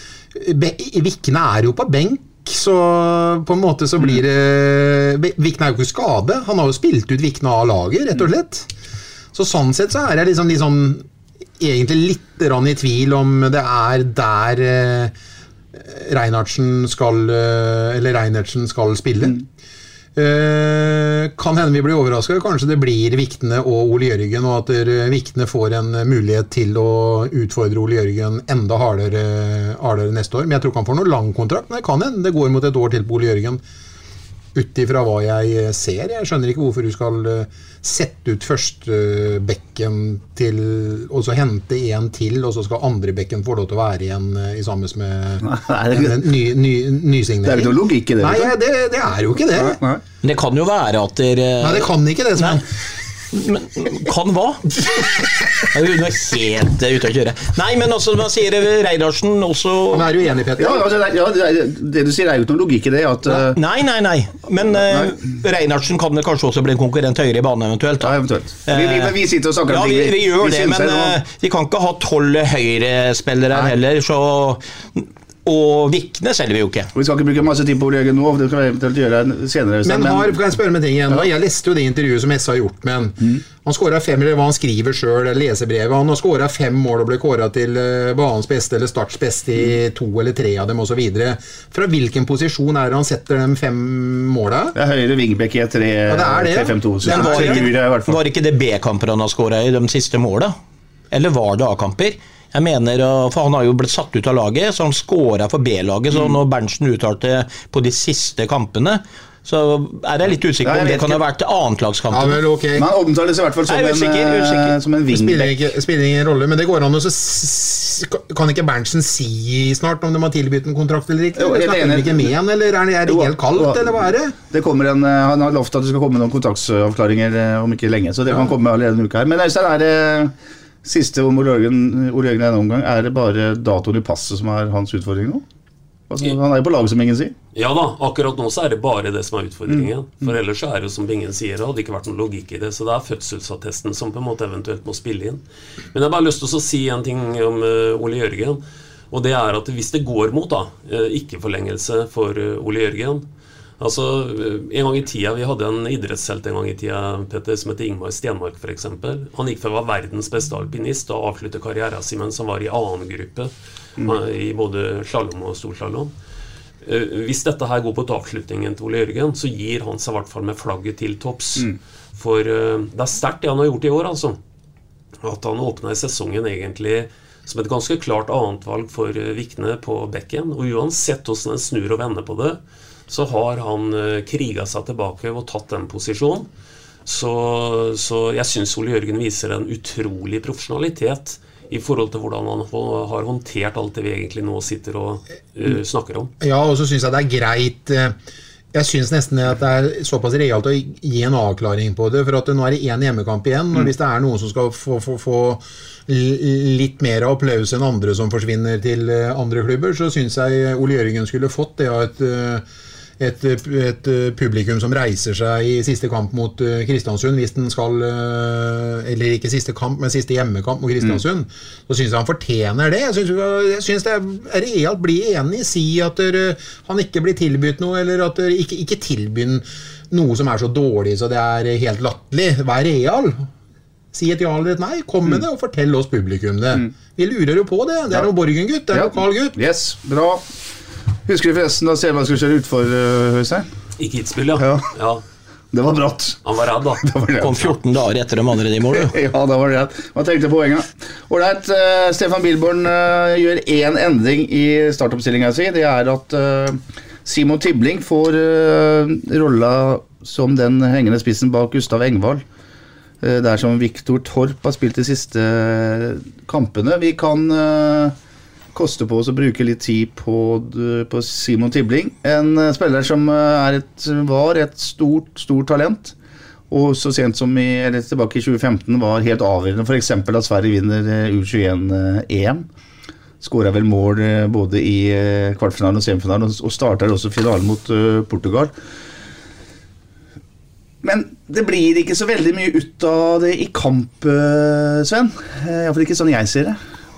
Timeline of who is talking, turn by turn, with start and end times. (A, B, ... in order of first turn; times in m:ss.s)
0:00.3-0:08.7 A
0:09.3-0:11.0 A
0:11.6-0:15.1 A
0:15.7-0:19.4 A
0:20.1-0:33.6 A
0:34.5-0:49.8 A
0:45.4-0:46.3 B
0:47.4-0:48.5 B
0:49.5-0:50.0 B
0:50.2-0:52.6 C
0:51.6-0:52.6 A
0:53.3-0:54.8 C
0:55.7-1:00.0 C
0:59.9-1:00.8 A
1:00.6-1:03.6 B
1:03.5-1:08.1 C
1:04.7-1:05.1 B
1:08.0-1:11.2 B
1:08.7-1:09.2 C
1:09.7-1:16.9 C
1:16.9-1:20.3 B
1:19.8-1:34.7 A
1:34.7-1:38.2 B
1:36.1-1:37.7 A
1:37.0-1:40.5 C
1:41.1-1:52.4 C
1:50.6-1:51.2 B
1:52.1-1:52.9 A
1:52.8-1:55.5 B
1:53.7-1:54.7 C
1:55.1-2:04.3 A
2:01.4-2:02.3 B
2:03.1-2:10.3 B
2:10.8-2:15.4 B
2:16.1-2:17.3 B
2:17.5-2:25.4 D
2:25.9-2:33.2 D
2:33.8-2:46.1 D
2:46.8-2:54.4 D
2:55.2-3:06.5 D
3:07.0-3:16.3 D
3:16.4-3:18.1 A
3:18.7-3:32.6 A
3:33.2-3:53.5 A
3:54.1-3:59.5 A
3:58.9-4:00.4 B
4:01.3-4:03.6 B
4:04.0-4:05.2 D
4:04.6-4:04.8 B
4:05.7-4:06.4 B
4:06.4-4:07.0 D
4:07.0-4:07.7 B
4:07.4-4:09.1 C
4:08.9-4:22.4 B
4:23.2-4:28.1 B
4:28.7-4:36.1 B
4:36.7-4:42.6 B
4:43.4-4:48.7 B
4:51.0-4:56.8 B